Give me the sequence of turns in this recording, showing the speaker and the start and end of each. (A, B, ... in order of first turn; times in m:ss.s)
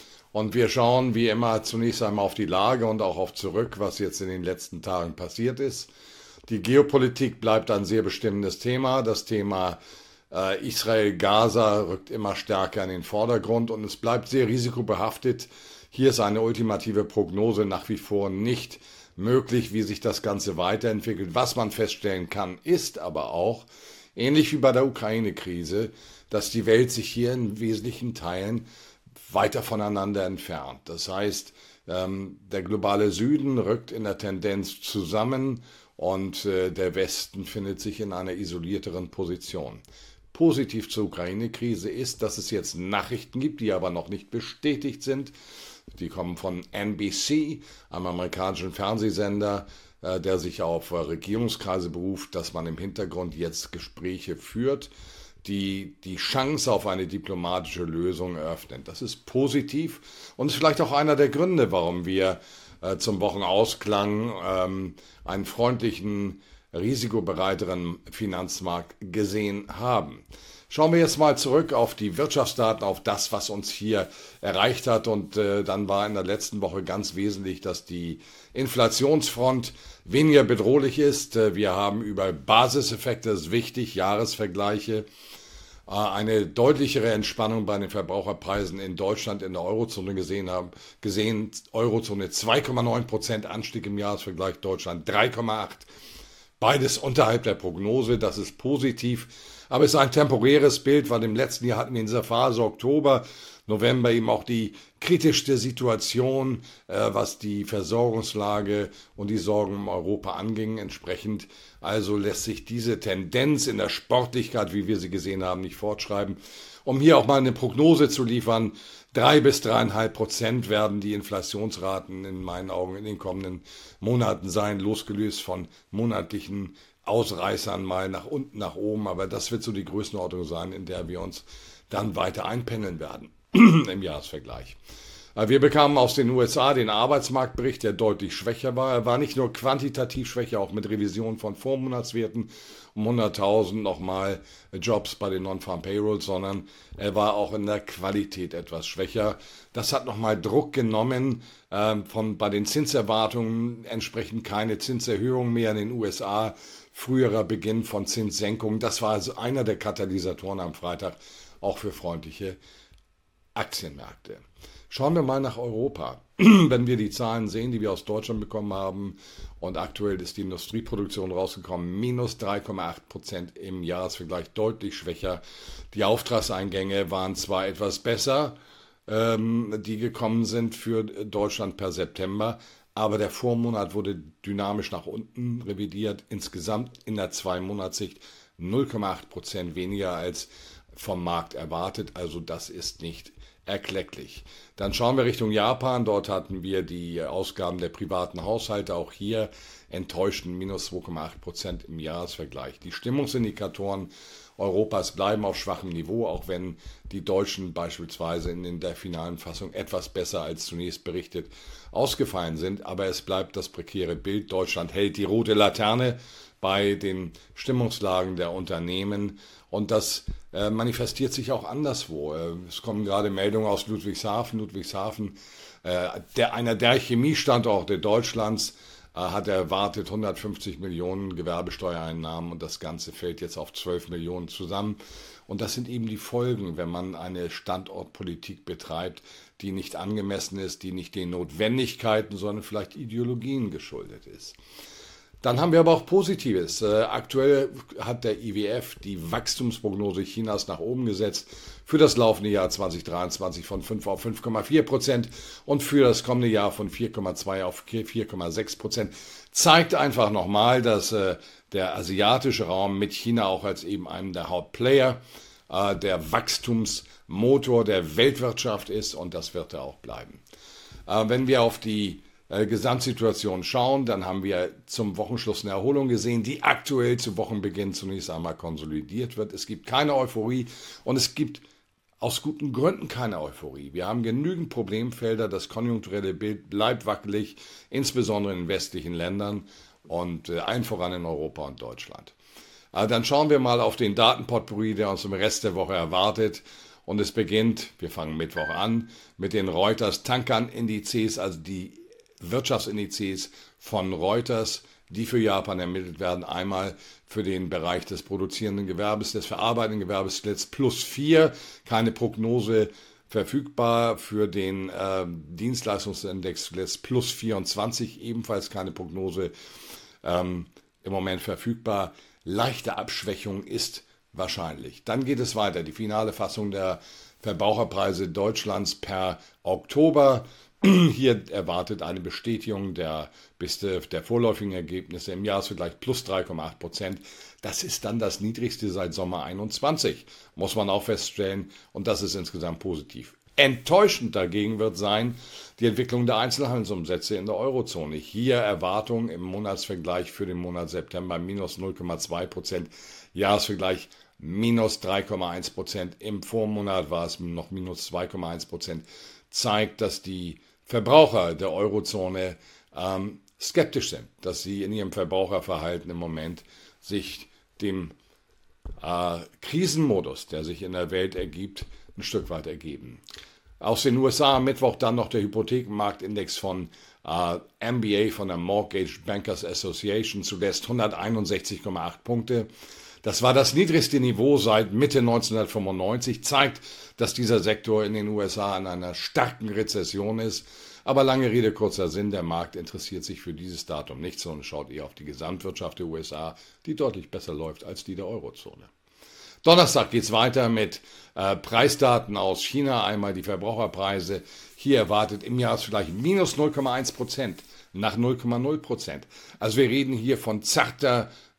0:00.3-0:05.9 A
0:06.5-0:09.8 A
0:10.3-0:28.6 A
0:29.2-0:45.3 A
0:46.0-0:54.9 A
0:55.4-1:25.1 A
1:25.9-1:35.9 A
1:36.6-2:14.8 A
2:15.4-2:42.6 A
2:43.6-2:58.6 A
2:59.1-4:04.6 A
4:05.4-4:30.4 A
4:31.1-4:41.6 A
4:42.2-4:52.4 A
4:52.9-5:19.5 A
5:20.2-6:08.2 A
6:09.0-6:13.2 A
6:13.8-6:22.7 A
6:23.2-6:38.9 A
6:39.6-6:51.3 A